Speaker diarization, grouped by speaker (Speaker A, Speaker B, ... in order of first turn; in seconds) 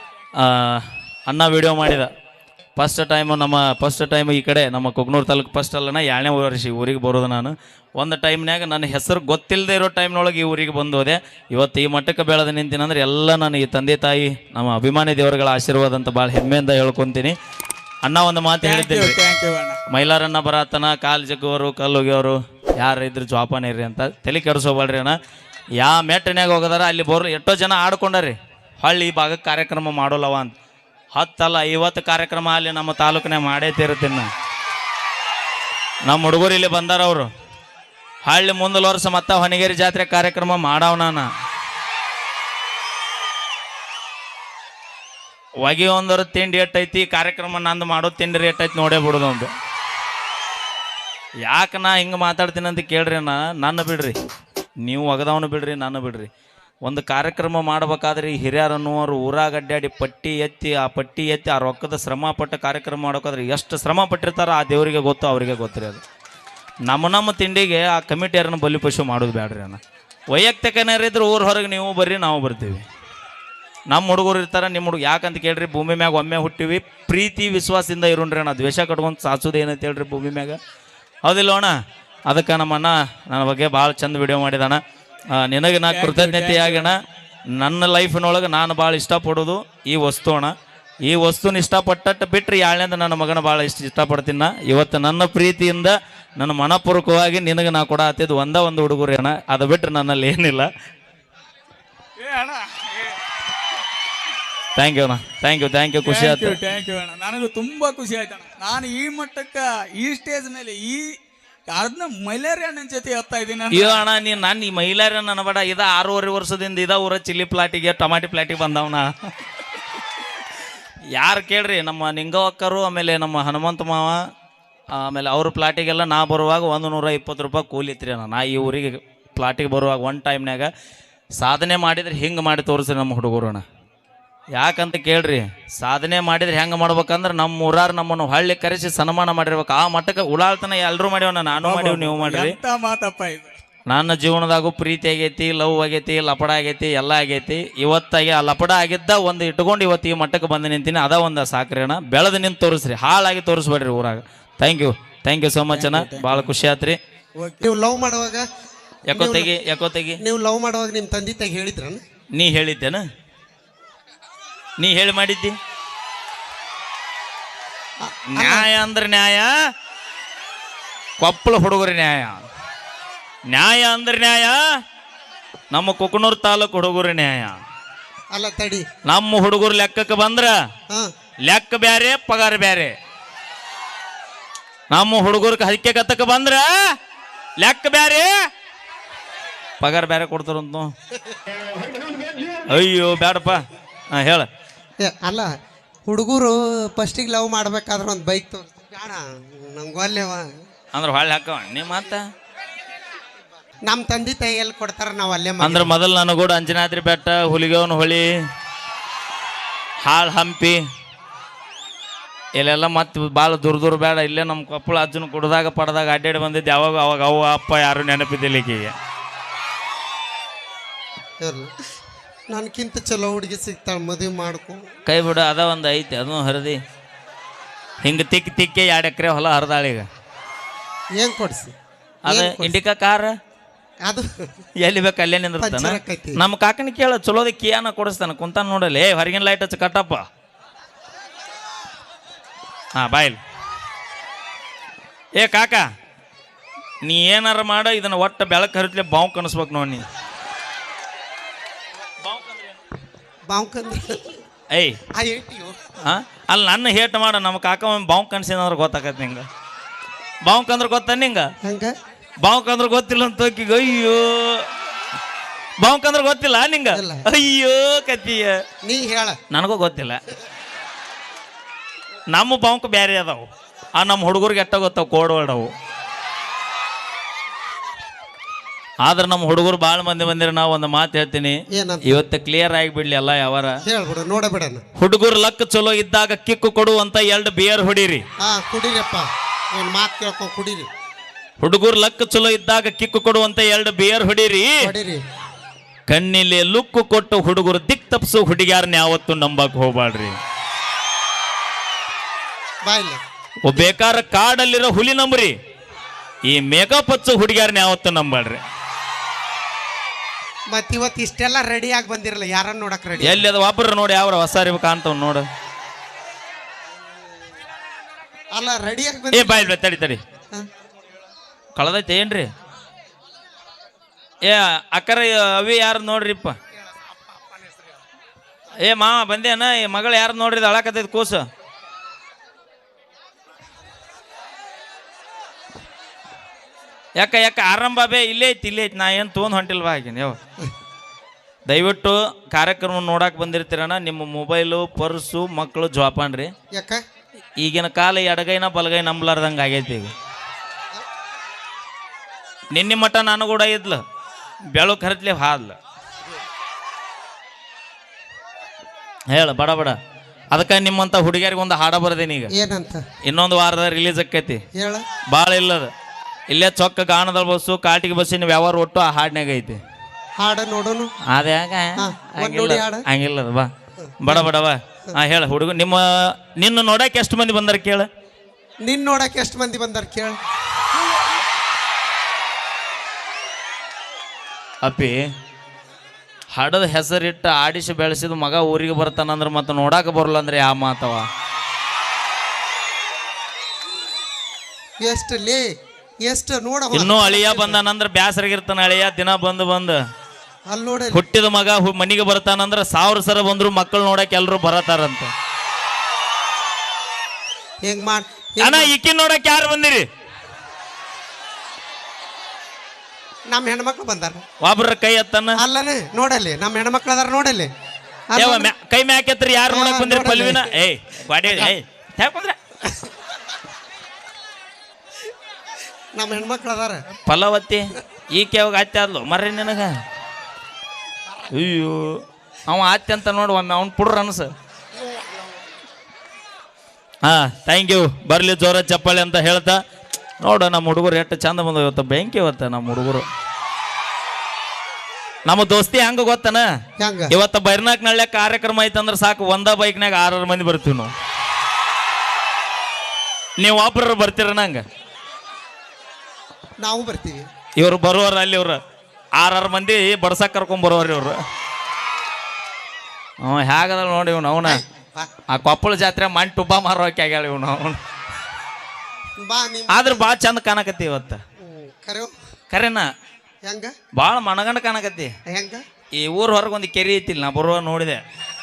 Speaker A: 0.4-2.1, 2.8-17.4, 18.0-19.2, 19.9-25.2, 25.8-30.5, 31.1-34.3, 36.0-37.3, 38.2-41.3, 45.6-49.5, 51.4-54.1, 54.8-56.3, 56.8-66.0, 66.8-69.8, 70.3-72.8, 73.9-80.6, 81.2-81.8, 82.3-84.8, 85.3-87.0, 87.5-100.7, 104.7-106.6, 113.7-119.1, 121.1-124.2, 124.9-130.7, 131.4-133.6, 134.5-142.6, 143.9-157.0, 159.1-160.2, 162.3-163.0, 164.8-165.5, 168.3-169.5, 171.2-172.4, 173.5-174.6, 175.7-177.6, 179.1-180.5, 181.5-182.9, 184.9-187.0, 187.6-188.3, 189.8-190.9, 192.5-194.5, 200.9-202.2, 205.6-208.3, 210.0-210.8, 212.6-218.9, 225.1-226.8, 228.0-230.1, 232.2-233.3, 234.8-240.2, 242.9-243.4, 245.4-245.8, 247.0-250.0, 252.2-252.7, 254.7-255.0, 256.0-259.4, 260.4-261.5, 262.4-264.7, 265.8-268.5, 269.5-270.2, 272.3-275.7, 279.0-283.7, 285.0-288.2, 291.6-294.9, 296.1-300.4, 303.6-305.5, 306.4-308.6, 313.2-315.4, 319.3-320.2, 321.8-322.5, 324.4-326.6, 328.8-331.5, 337.2-340.4, 341.7-346.5, 347.6-350.1, 352.7-354.0, 354.7-355.8, 359.3-359.9, 360.5-362.5, 363.2-364.6, 365.3-365.9, 366.5-369.8, 371.3-373.7, 374.2-378.1, 384.8-385.2, 386.5-391.3, 396.9-400.0, 401.1-405.3, 408.6-410.0, 414.6-415.6, 418.4-422.6, 427.2-429.9, 431.5-434.5, 437.2-439.8, 440.4-443.3, 445.4-446.6, 447.3-451.1, 453.6-454.8, 457.8-458.8, 459.4-461.4, 463.4-464.8, 465.5-468.0, 469.9-471.4, 472.7-473.1, 474.1-475.3, 476.2-478.2
Speaker B: 18.6-19.8, 85.9-86.9, 102.2-103.2, 106.0-114.0, 141.6-143.5, 155.9-156.4
Speaker C: 157.5-158.4, 159.1-159.5, 160.2-162.0, 168.0-168.8, 178.3-178.8, 195.0-195.5, 196.1-200.6, 203.8-205.9, 221.4-221.7, 222.5-224.8, 231.2-231.7, 232.3-232.8, 235.6-236.4, 253.5-254.4, 255.1-255.8, 261.6-261.9, 266.9-267.2, 268.8-269.4, 281.7-282.2, 283.9-284.8, 288.4-290.9, 294.8-295.2, 302.9-303.2, 310.7-313.4, 318.5-319.7, 326.7-328.0, 346.7-347.0, 362.5-363.0, 364.8-365.0, 370.4-371.1, 372.0-373.0, 374.0-374.5, 378.8-380.4, 395.0-395.6, 396.2-397.8, 400.7-401.2, 407.8-408.9, 413.5-414.4, 415.6-417.7, 418.3-418.7, 419.7-420.8, 421.4-421.7, 426.1-427.1, 435.0-435.6, 447.0-447.3, 456.8-457.4, 464.6-465.3, 469.4-470.3, 471.6-472.3, 473.6-473.9, 475.5-475.8